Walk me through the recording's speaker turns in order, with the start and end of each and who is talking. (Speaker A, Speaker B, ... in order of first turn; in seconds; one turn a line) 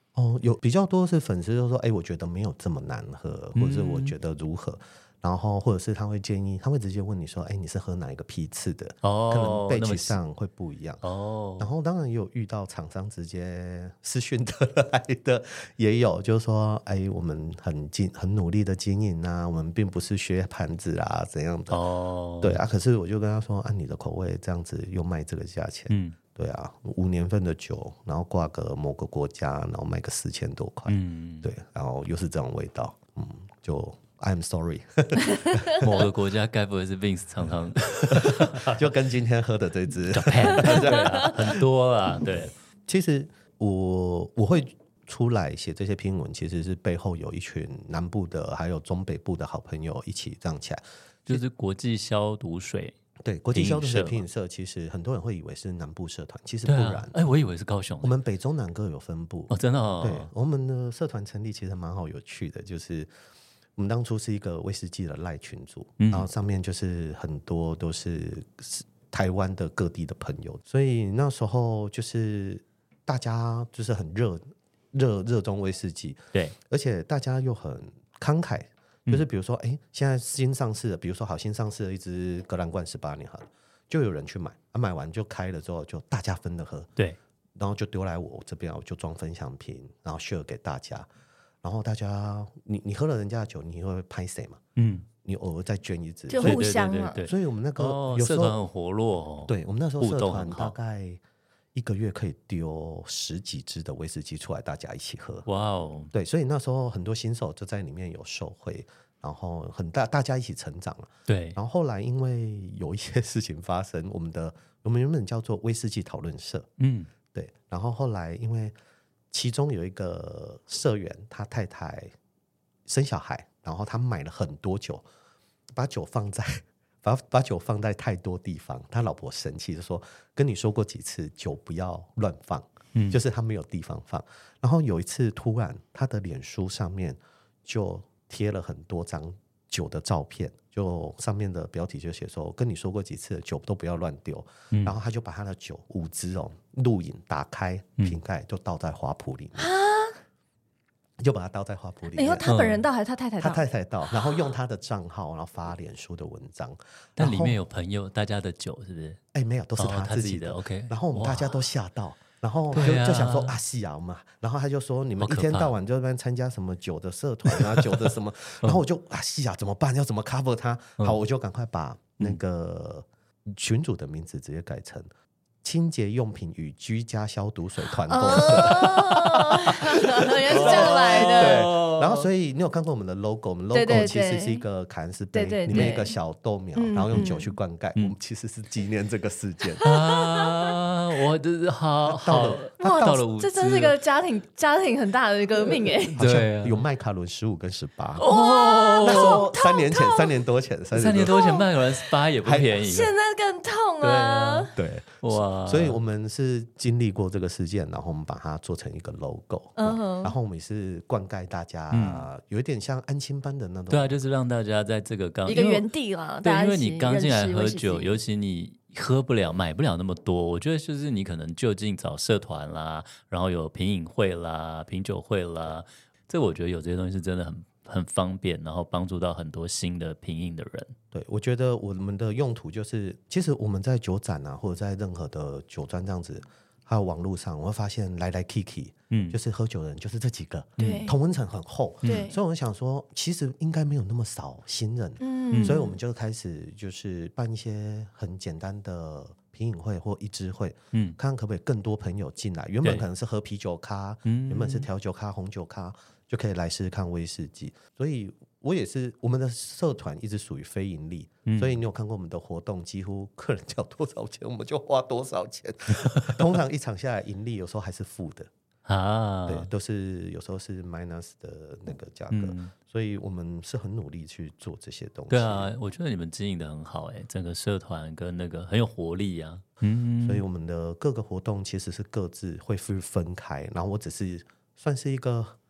Speaker A: 0.1-11.0
Speaker B: 3.5-4.1
Speaker B: 9.0-10.2
Speaker B: 11.0-11.7
Speaker A: 11.6-21.8
Speaker B: 21.7-22.6
Speaker A: 22.4-36.1
Speaker B: 25.9-26.2
Speaker B: 30.9-31.5
Speaker B: 35.8-38.9
Speaker A: 38.1-41.6
Speaker B: 40.1-42.5
Speaker A: 42.9-51.4
Speaker B: 51.3-53.0
Speaker A: 53.2-57.2
Speaker B: 53.5-54.2
Speaker B: 56.7-58.1
Speaker A: 58.0-63.1
Speaker B: 59.5-60.3
Speaker A: 63.8-86.9
Speaker B: 66.0-66.3
Speaker A: 87.6-91.1
Speaker A: 91.6-94.6
Speaker B: 94.8-95.1
Speaker A: 95.2-98.6
Speaker C: 96.3-97.2
Speaker B: 96.4-100.7
Speaker A: 99.5-101.2
Speaker A: 101.8-105.5
Speaker B: 105.5-106.1
Speaker A: 106.1-116.7
Speaker B: 111.3-111.6
Speaker B: 116.8-117.1
Speaker A: 117.3-118.7
Speaker A: 119.3-122.1
Speaker A: 122.9-125.0
Speaker A: 125.7-149.7
Speaker B: 132.9-133.2
Speaker C: 149.6-150.2
Speaker A: 151.2-152.5
Speaker C: 152.1-153.7
Speaker B: 152.4-152.8
Speaker A: 153.4-157.6
Speaker B: 157.2-159.2
Speaker A: 159.3-175.1
Speaker B: 159.8-161.6
Speaker B: 162.7-163.6
Speaker B: 165.2-165.7
Speaker B: 167.5-167.9
Speaker A: 175.6-189.9
Speaker C: 178.1-181.7
Speaker B: 180.5-182.3
Speaker C: 183.7-184.6
Speaker C: 185.3-186.2
Speaker B: 185.7-186.0
Speaker C: 186.8-187.5
Speaker C: 189.8-190.5
Speaker B: 189.8-194.0
Speaker A: 192.1-193.1
Speaker C: 192.8-196.2
Speaker B: 196.1-196.8
Speaker A: 196.2-198.3
Speaker B: 198.2-199.5
Speaker C: 198.2-200.3
Speaker A: 199.0-201.4
Speaker B: 200.9-203.1
Speaker C: 201.3-201.7
Speaker A: 202.4-202.8
Speaker C: 202.7-204.7
Speaker B: 204.0-206.0
Speaker A: 204.8-214.2
Speaker C: 209.8-210.3
Speaker B: 211.9-212.3
Speaker B: 213.9-215.9
Speaker C: 215.5-218.2
Speaker B: 216.4-230.9
Speaker A: 231.1-268.5
Speaker B: 239.1-239.4
Speaker B: 240.8-241.1
Speaker C: 240.8-241.2
Speaker C: 242.0-242.4
Speaker C: 245.2-245.9
Speaker B: 245.5-245.8
Speaker B: 250.9-251.2
Speaker B: 254.2-254.9
Speaker B: 261.5-261.8
Speaker B: 268.9-269.7
Speaker A: 269.5-275.7
Speaker B: 272.3-272.7
Speaker B: 275.3-280.4
Speaker A: 280.2-285.6